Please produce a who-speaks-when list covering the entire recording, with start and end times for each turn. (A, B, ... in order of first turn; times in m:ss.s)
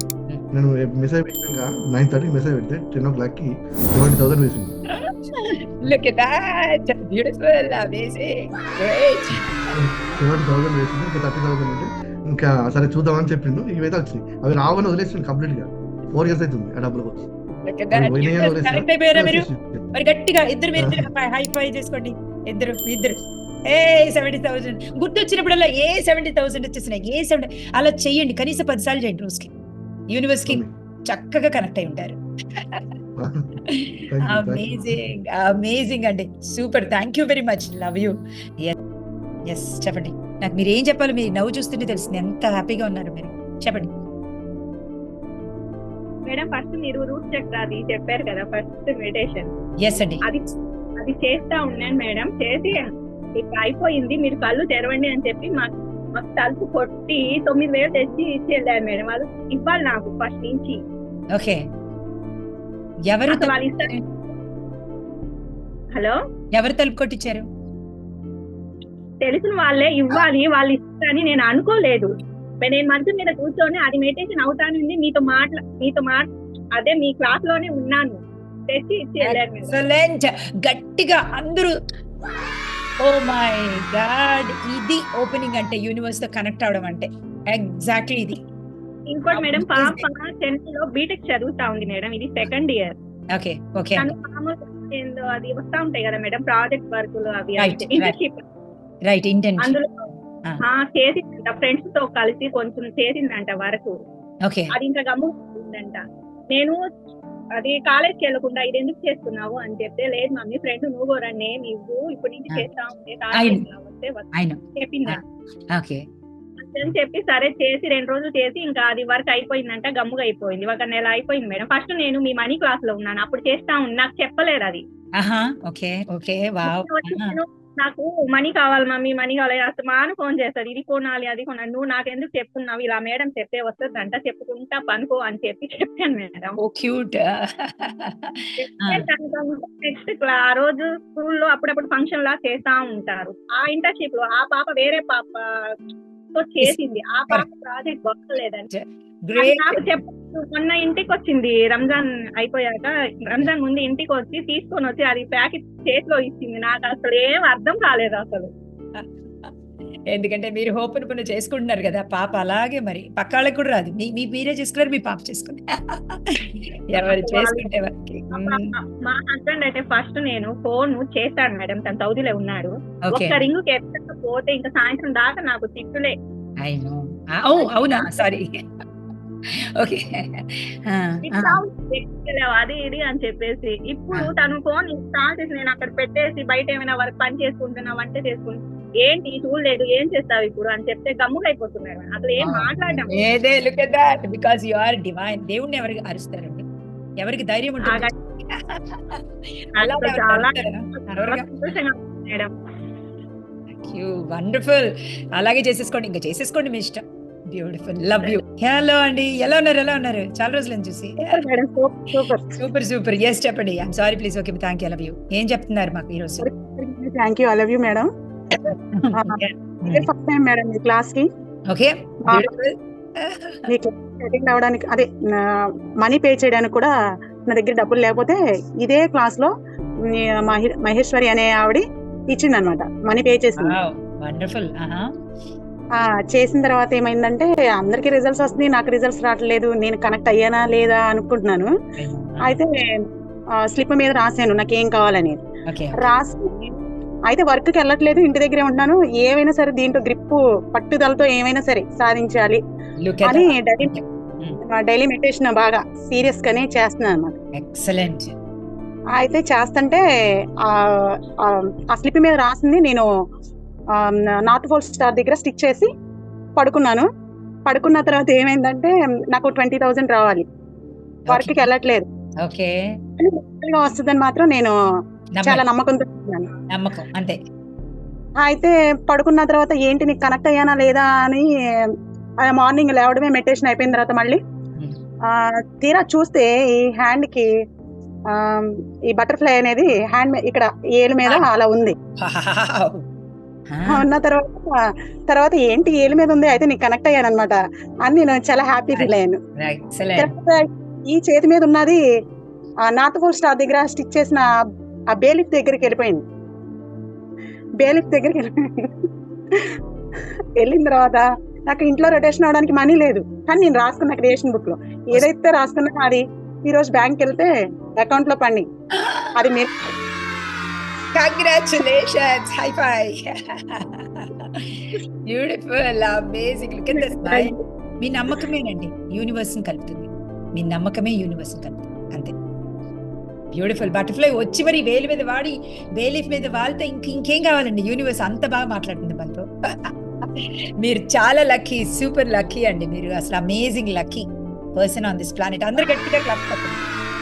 0:00.5-0:04.7 A
0:04.9-0:09.8 B
0:09.7-0:17.3 A
0:17.6-0:29.5 B
0:17.9-0:19.9 A
0:20.8-0:21.1 A
0:30.1-0:32.9 B
0:33.2-0:33.6 A
0:33.6-0:38.8 B
0:34.1-0:35.1 A
0:39.5-0:43.9 B
0:46.2-0:49.5 C
0:49.8-0:50.2 B
0:50.2-1:00.8 C
1:01.3-1:01.6 B
1:03.1-1:04.0 B
1:03.3-1:03.9 C
1:06.5-1:07.5 B
1:09.2-1:19.8 C
1:19.2-1:21.7 B
1:23.0-1:28.4 B
1:29.1-1:32.9 C
1:29.3-1:30.0 B
1:33.3-1:34.1 B
1:33.9-1:38.4 C
1:37.6-1:38.1 B
1:39.0-1:39.7 B
1:39.6-1:43.9 C
1:44.4-1:44.7 B
1:44.7-1:46.0 C
1:46.5-1:46.8 C
1:47.6-1:55.2 C
1:53.3-1:53.6 B
1:54.3-1:54.6 B
1:55.7-1:56.0 B
1:56.6-2:04.8 C
2:05.2-2:07.4 B
2:06.6-2:16.6 C
2:16.6-2:19.0 B
2:18.6-2:25.4 C
2:26.3-2:28.7 C
2:28.7-2:29.9 B
2:29.4-2:38.5 C
2:38.9-2:39.5 B
2:40.1-2:48.7 B
2:47.0-2:47.8 C
2:48.3-2:56.1 C
2:53.1-2:53.4 B
2:56.6-2:58.8 B
2:57.6-2:58.3 C
2:59.4-3:01.6 B
3:01.2-3:13.2 C
3:12.4-3:16.6 B
3:17.2-3:21.5 B
3:17.8-3:18.1 C
3:19.8-3:22.5 C
3:23.7-3:31.4 B
3:31.2-3:32.6 D
3:32.6-3:36.5 B
3:36.4-3:38.1 D
3:38.6-3:40.1 B
3:39.1-3:41.3 D
3:41.7-3:43.7 B
3:42.2-3:42.5 D
3:43.7-3:46.9 D
3:47.4-3:49.5 D
3:50.1-3:53.7 D
3:53.6-3:55.1 B
3:56.0-4:01.7 D
4:02.0-4:02.6 B
4:02.4-4:03.0 D
4:03.6-4:05.4 D
4:05.7-4:06.0 B
4:06.0-4:06.8 D
4:07.3-4:12.6 D
4:13.0-4:14.6 B
4:13.2-4:14.0 D
4:14.7-4:17.3 D
4:17.5-4:18.3 B
4:19.1-4:20.0 D
4:20.6-4:23.0 D
4:23.9-4:25.9 D
4:26.6-4:27.1 D
4:27.7-4:30.4 D
4:31.3-4:31.6 B
4:31.3-4:32.1 D
4:32.4-4:33.0 B
4:33.2-4:34.7 D
4:35.4-4:35.6 B
4:35.4-4:36.5 D
4:36.7-4:37.4 B
4:38.4-4:41.9 D
4:42.4-4:44.4 D
4:45.3-4:47.5 D
4:48.3-4:51.9 D
4:52.2-4:53.0 B
4:53.7-4:54.0 B
4:53.9-4:59.4 D
4:59.0-5:00.3 B
5:00.2-5:02.0 D
5:02.8-5:04.4 D
5:05.1-5:06.2 D
5:07.8-5:08.9 D
5:10.6-5:18.6 D
5:18.9-5:19.4 B
5:19.4-5:19.7 D
5:21.1-5:32.3 B
5:26.9-5:27.5 D
5:33.5-5:46.8 B